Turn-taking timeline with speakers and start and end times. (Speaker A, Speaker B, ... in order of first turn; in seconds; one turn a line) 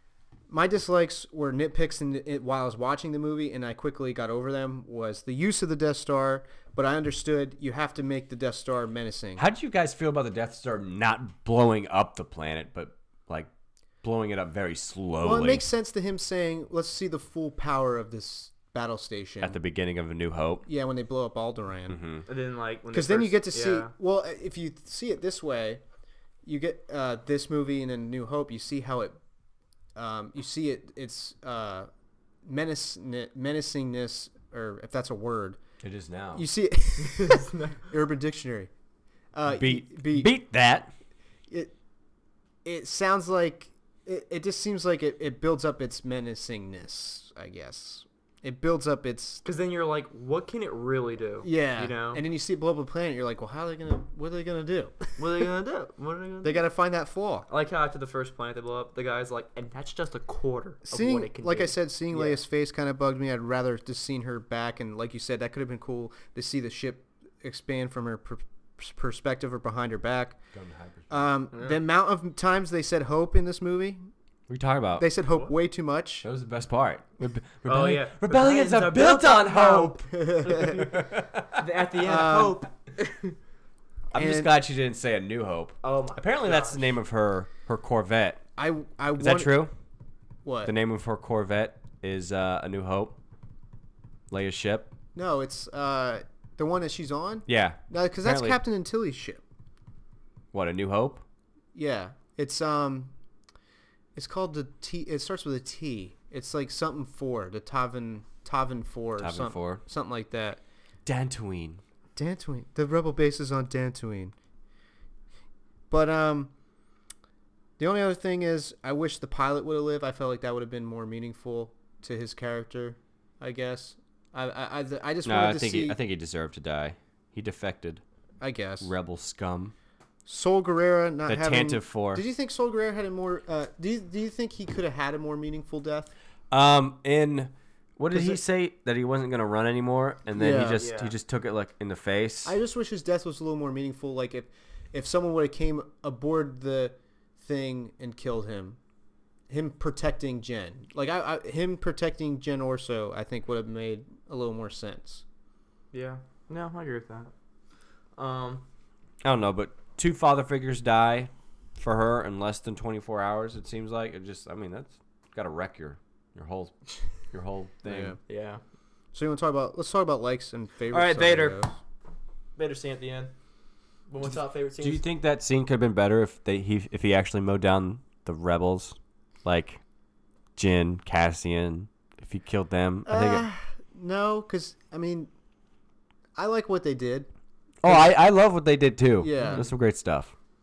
Speaker A: 0.5-9.4
Speaker B: 9.4-13.5
Speaker B: 14.0-15.6
Speaker A: 15.2-19.6
Speaker B: 19.4-20.6
Speaker A: 20.7-22.0
Speaker B: 21.9-22.3
Speaker C: 22.3-23.9
Speaker A: 22.9-25.8
Speaker A: 26.4-29.2
Speaker A: 29.9-31.9
Speaker A: 32.5-35.6
Speaker B: 35.8-36.5
Speaker A: 36.4-38.7
Speaker C: 37.0-37.9
Speaker A: 39.3-40.3
Speaker B: 39.5-40.9
Speaker A: 42.6-49.4
Speaker C: 49.4-52.2
Speaker A: 51.4-55.0
Speaker C: 55.2-56.6
Speaker A: 56.4-57.5
Speaker C: 57.5-62.4
Speaker A: 60.9-70.4
Speaker B: 70.5-71.3
Speaker A: 71.1-74.0
Speaker C: 71.5-71.8
Speaker B: 74.5-75.1
Speaker A: 75.0-76.3
Speaker B: 76.2-81.6
Speaker C: 77.7-83.3
Speaker A: 79.5-80.9
Speaker A: 82.0-82.6
Speaker A: 84.1-84.5
Speaker B: 84.1-88.4
Speaker C: 85.8-87.0
Speaker A: 88.6-89.6
Speaker B: 89.2-89.7
Speaker A: 90.5-90.7
Speaker B: 90.7-93.2
Speaker B: 94.3-94.9
Speaker A: 95.2-99.4
Speaker B: 97.5-98.6
Speaker B: 100.5-101.2
Speaker A: 101.8-103.1
Speaker A: 104.2-110.6
Speaker B: 109.2-109.8
Speaker B: 111.1-111.8
Speaker A: 112.2-114.3
Speaker A: 115.9-116.5
Speaker A: 117.8-126.0
Speaker B: 125.2-128.0
Speaker A: 128.4-128.9
Speaker B: 128.8-129.7
Speaker A: 130.3-136.1
Speaker B: 131.3-132.2
Speaker B: 136.5-142.6
Speaker A: 138.1-138.4
Speaker A: 140.3-140.9
Speaker C: 140.8-141.2
Speaker A: 142.4-148.8
Speaker A: 149.5-155.2
Speaker C: 155.9-157.3
Speaker C: 158.2-158.7
Speaker B: 159.2-168.2
Speaker A: 167.9-168.2
Speaker C: 168.3-168.6
Speaker A: 169.1-171.8
Speaker C: 170.9-171.6
Speaker C: 172.6-173.3
Speaker C: 174.1-175.0
Speaker B: 174.8-179.8
Speaker B: 180.6-183.5
Speaker A: 183.1-185.3
Speaker A: 186.3-187.3
Speaker B: 187.8-190.3
Speaker A: 187.8-188.2
Speaker A: 189.2-189.7
Speaker C: 189.4-189.7